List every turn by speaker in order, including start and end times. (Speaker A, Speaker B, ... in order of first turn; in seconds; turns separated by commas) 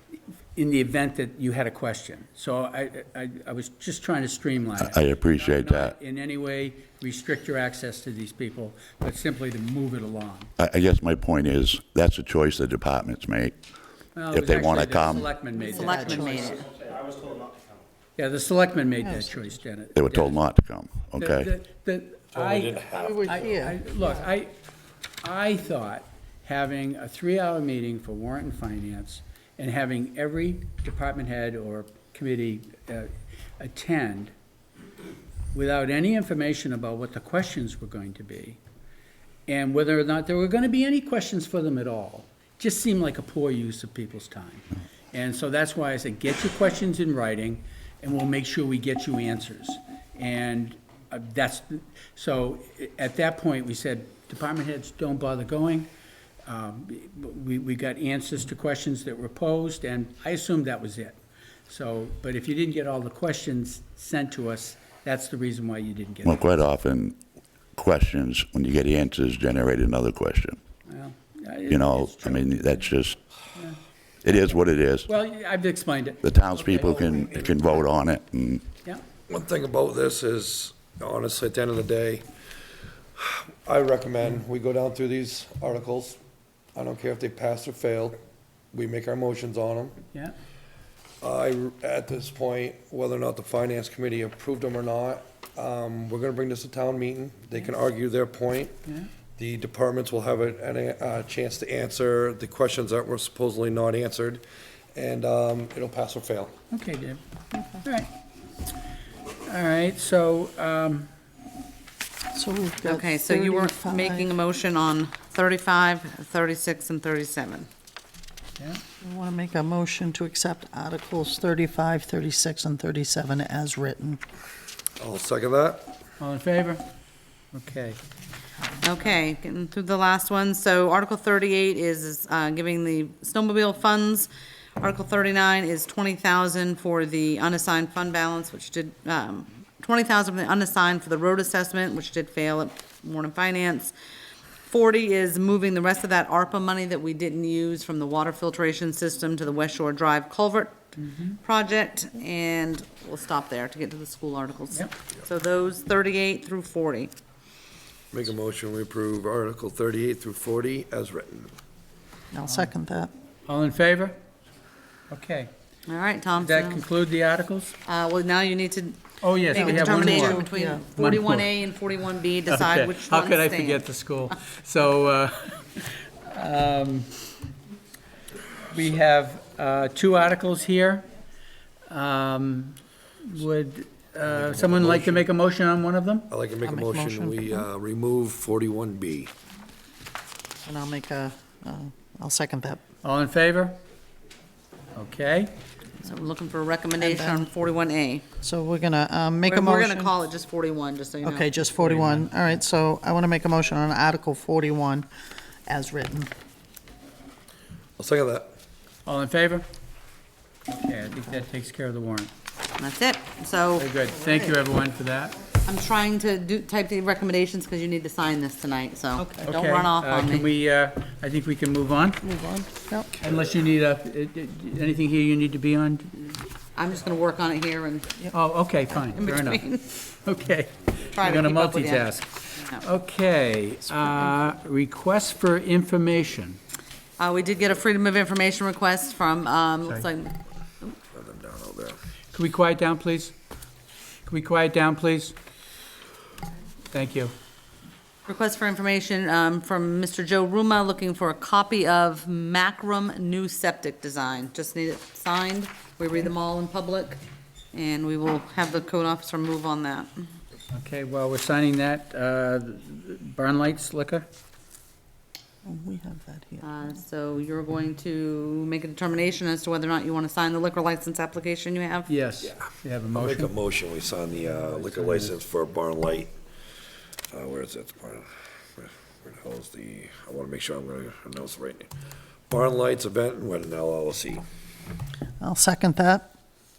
Speaker A: 0.6-10.5, Speaker B: 4.8-5.9, Speaker B: 10.6-13.5, Speaker A: 14.2-16.5, Speaker B: 14.3-15.4, Speaker C: 15.6-16.5, Speaker D: 15.7-16.7, Speaker A: 18.2-20.4, Speaker C: 19.0-19.5, Speaker B: 19.9-21.5, Speaker A: 21.2-24.5, Speaker E: 22.3-23.6, Speaker C: 22.9-24.3, Speaker A: 25.2-34.3, Speaker A: 35.5-38.6, Speaker A: 39.5-55.9, Speaker A: 56.5-66.4, Speaker B: 66.2-67.2, Speaker B: 67.8-70.6, Speaker A: 70.9-72.6, Speaker B: 71.7-73.2, Speaker B: 74.2-75.1, Speaker A: 75.1-77.8, Speaker B: 76.2-78.7, Speaker E: 79.3-82.2, Speaker E: 83.2-86.2, Speaker E: 86.8-88.2, Speaker E: 88.7-90.0, Speaker E: 91.2-98.7, Speaker E: 99.4-104.4, Speaker E: 105.0-106.5, Speaker A: 106.7-107.2, Speaker A: 107.8-108.1, Speaker A: 109.5-111.1, Speaker C: 112.3-114.3, Speaker D: 112.8-117.7, Speaker C: 119.0-124.2, Speaker E: 125.0-125.9, Speaker A: 126.2-126.8, Speaker A: 127.5-128.0, Speaker D: 128.8-143.9, Speaker D: 144.7-157.1, Speaker A: 151.0-151.3, Speaker E: 158.1-161.5, Speaker C: 162.3-163.1, Speaker A: 163.5-164.2, Speaker A: 165.1-165.5, Speaker D: 165.9-166.8, Speaker A: 166.4-167.8, Speaker D: 167.9-173.8, Speaker A: 169.2-170.4, Speaker C: 169.5-170.9, Speaker A: 171.0-171.5, Speaker A: 172.5-177.2, Speaker A: 178.7-181.1, Speaker A: 181.9-186.3, Speaker E: 184.3-185.2, Speaker E: 186.3-189.3, Speaker C: 186.7-187.7, Speaker C: 190.7-192.8, Speaker A: 193.0-193.8, Speaker A: 194.9-195.5, Speaker D: 196.0-198.2, Speaker C: 197.0-197.5, Speaker C: 198.4-200.1, Speaker D: 199.5-201.5, Speaker C: 201.2-205.1, Speaker A: 201.8-202.3, Speaker C: 205.7-206.3, Speaker E: 208.0-208.6, Speaker A: 209.1-209.7, Speaker A: 210.7-212.3, Speaker D: 212.8-213.9, Speaker A: 213.8-215.4, Speaker D: 215.7-220.5, Speaker A: 219.4-222.2, Speaker C: 222.2-223.1, Speaker A: 223.2-226.2, Speaker D: 226.8-228.2, Speaker A: 228.3-236.6, Speaker D: 228.9-229.8, Speaker D: 231.1-232.8, Speaker D: 237.2-240.9, Speaker E: 241.1-242.0, Speaker A: 242.3-243.3, Speaker A: 244.3-245.3, Speaker A: 246.9-247.3, Speaker D: 248.3-257.2, Speaker D: 257.7-260.3, Speaker A: 260.7-264.3, Speaker C: 265.6-267.0, Speaker D: 266.6-272.1, Speaker A: 272.1-273.5, Speaker E: 273.1-276.3, Speaker A: 274.4-275.3, Speaker E: 277.3-278.3, Speaker E: 278.8-281.9, Speaker E: 282.5-284.4, Speaker C: 285.4-286.3